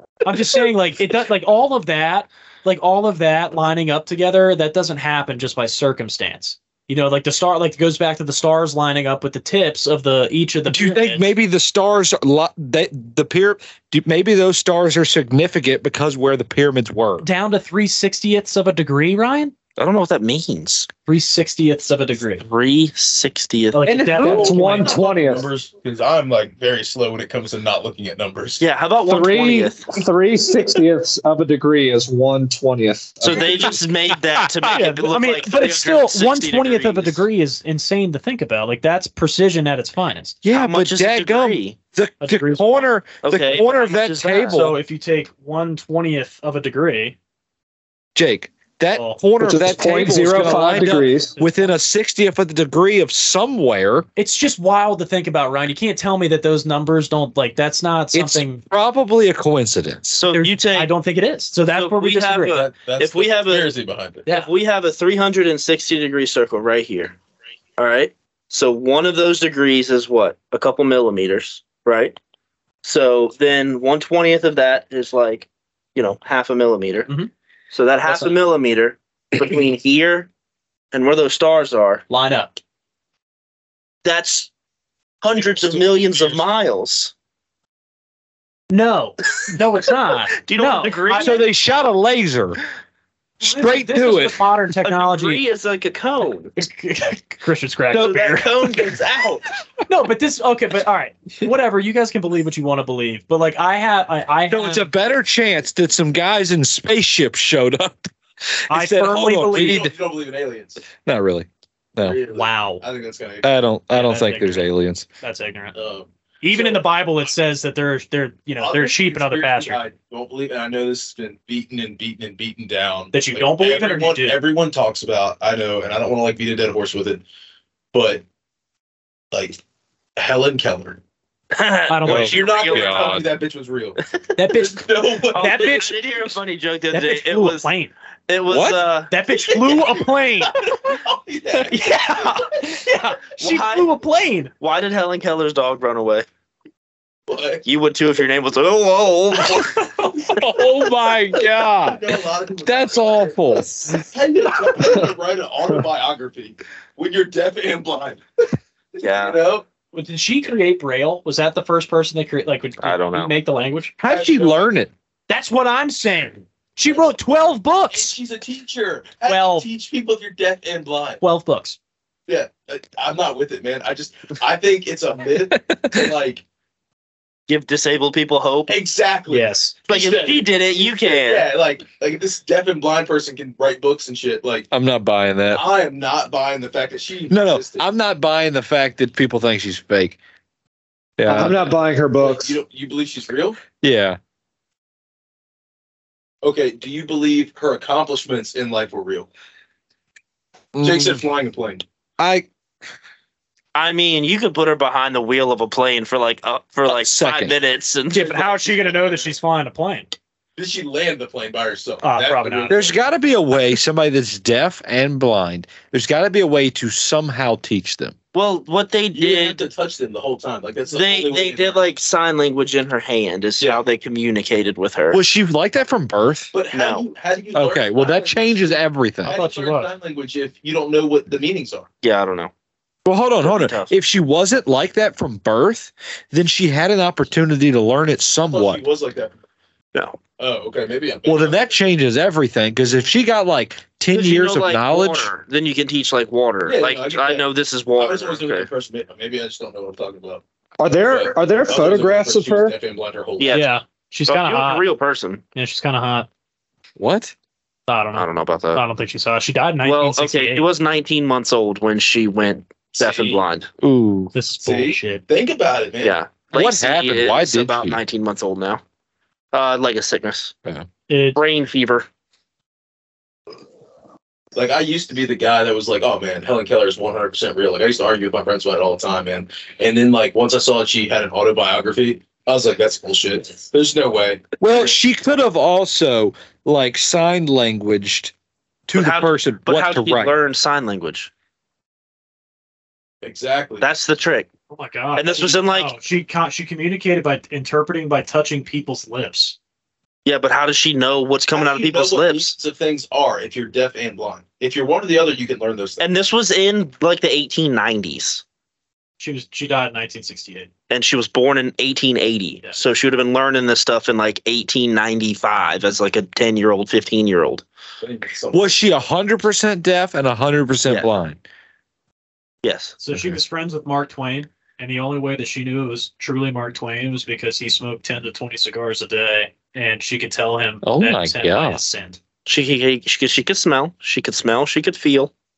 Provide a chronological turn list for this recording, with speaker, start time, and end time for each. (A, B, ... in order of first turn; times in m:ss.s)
0:00.2-0:11.3 A
0:10.7-0:17.2 B
0:17.2-0:19.5 A
0:19.8-0:20.9 C
0:21.0-0:22.4 A
0:22.4-0:23.8 C
0:23.7-0:25.0 A
0:23.8-0:25.5 D
0:24.2-0:24.5 B
0:24.2-0:28.6 E
0:28.6-0:29.9 C
0:29.1-0:33.8 D
0:33.2-0:37.2 C
0:34.4-0:34.7 B
0:34.7-0:40.4 A
0:40.4-0:44.8 B
0:40.5-0:41.8 C
0:42.2-0:42.9 A
0:43.2-0:44.6 C
0:44.5-0:47.2 A
0:48.1-0:54.1 B
0:48.9-0:49.2 A
0:49.4-0:51.3 D
0:50.1-0:51.8 A
0:54.2-0:58.6 A
0:58.1-1:00.0 B
1:00.0-1:00.9 C
1:00.3-1:02.6 A
1:01.7-1:03.7 C
1:02.5-1:04.2 E
1:04.2-1:04.5 A
1:04.3-1:07.2 C
1:07.8-1:12.2 C
1:12.8-1:17.1 C
1:17.7-1:20.3 C
1:18.0-1:18.3 A
1:20.9-1:22.0 C
1:22.1-1:22.5 A
1:24.0-1:24.5 C
1:25.2-1:27.1 C
1:25.4-1:26.4 E
1:28.7-1:31.4 A
1:30.3-1:31.4 C
1:31.2-1:32.6 B
1:33.4-1:34.4 B
1:33.4-1:35.4 A
1:34.8-1:36.5 C
1:36.6-1:38.9 A
1:37.9-1:39.4 C
1:39.9-1:44.9 A
1:44.5-1:48.1 B
1:48.7-1:49.9 B
1:48.7-1:49.8 A
1:49.5-1:50.8 E
1:51.0-1:52.2 B
1:52.0-1:53.5 E
1:52.3-1:52.8 A
1:53.4-1:55.0 B
1:53.9-1:54.7 A
1:55.2-1:55.8 A
1:55.7-1:56.8 E
1:56.4-1:59.8 A
1:58.6-2:07.2 E
2:03.1-2:04.4 A
2:07.9-2:08.2 E
2:09.3-2:09.6 E
2:10.2-2:11.0 E
2:11.5-2:13.2 C
2:11.9-2:12.5 A
2:12.0-2:13.2 B
2:12.2-2:14.0 E
2:14.4-2:16.0 A
2:14.5-2:15.8 E
2:15.3-2:17.7 C
2:16.9-2:17.9 A
2:18.3-2:19.1 C
2:18.5-2:18.8 B
2:19.1-2:20.5 A
2:19.6-2:19.9 E
2:20.5-2:22.6 E
2:21.7-2:24.5 A
2:23.4-2:23.9 C
2:24.6-2:26.2 C
2:27.3-2:27.6 E
2:27.6-2:29.9 C
2:29.5-2:30.1 A
2:30.4-2:32.1 B
2:31.8-2:38.2 E
2:32.6-2:34.0 B
2:38.9-2:39.7 E
2:39.0-2:39.4 C
2:39.9-2:43.9 A
2:42.8-2:43.3 C
2:44.0-2:44.9 B
2:44.1-2:44.7 E
2:45.3-2:48.1 A
2:46.9-2:47.1 E
2:47.9-2:51.2 E
2:49.2-2:49.7 A
2:51.2-2:51.8 A
2:52.3-2:56.4 E
2:55.5-2:56.1 B
2:57.5-2:58.7 C
2:58.7-3:04.7 E
2:59.3-2:59.8 A
2:59.9-3:01.5 C
3:04.7-3:05.6 B
3:05.5-3:07.8 E
3:07.3-3:10.2 B
3:11.2-3:11.6 B
3:11.3-3:12.6 D
3:12.2-3:13.6 E
3:13.7-3:14.2 B
3:16.4-3:19.3 E
3:20.7-3:21.2 B
3:20.8-3:21.8 E
3:22.2-3:22.5 B
3:23.7-3:28.4 C
3:26.9-3:27.6 B
3:28.1-3:30.1 A
3:28.4-3:29.3 E
3:30.6-3:33.0 E
3:32.0-3:32.8 A
3:32.7-3:38.1 B
3:38.3-3:39.6 C
3:39.1-3:41.8 E
3:40.9-3:45.2 C
3:45.1-3:46.5 B
3:46.5-3:48.7 E
3:46.7-3:47.0 C
3:47.5-3:49.4 B
3:49.2-3:51.9 E
3:49.2-3:49.9 A
3:52.0-3:52.5 C
3:53.0-3:58.8 B
3:53.4-3:53.9 C
3:58.5-3:59.3 E
4:00.4-4:01.8 E
4:01.2-4:05.3 B
4:04.1-4:08.7 C
4:06.6-4:13.6 E
4:10.8-4:12.7 D
4:13.4-4:13.7 C
4:13.5-4:14.9 A
4:14.3-4:15.4 C
4:15.5-4:16.3 A
4:17.0-4:17.3 B
4:17.9-4:20.6 A
4:18.1-4:18.8 C
4:19.8-4:23.7 C
4:22.9-4:23.4 E
4:23.8-4:24.3 B
4:24.3-4:25.2 A
4:24.6-4:26.2 E
4:26.0-4:28.8 C
4:26.5-4:28.0 B
4:29.5-4:30.5 C
4:31.1-4:31.4 A
4:31.3-4:32.1 C
4:34.5-4:44.6 E
4:44.6-4:48.3 B
4:48.9-4:50.3 B
4:48.9-4:51.3 C
4:53.2-4:53.8 E
4:53.8-4:54.5 C
4:54.7-4:59.6 A
4:55.1-4:55.9 C
5:00.2-5:02.6 C
5:01.5-5:06.0 E
5:06.0-5:08.4 C
5:09.2-5:10.7 A
5:10.9-5:17.6 C
5:18.0-5:18.7 E
5:18.5-5:21.4 B
5:22.6-5:23.0 C
5:23.0-5:32.2 A
5:23.1-5:23.4 B
5:30.8-5:31.8 B
5:32.4-5:35.3 C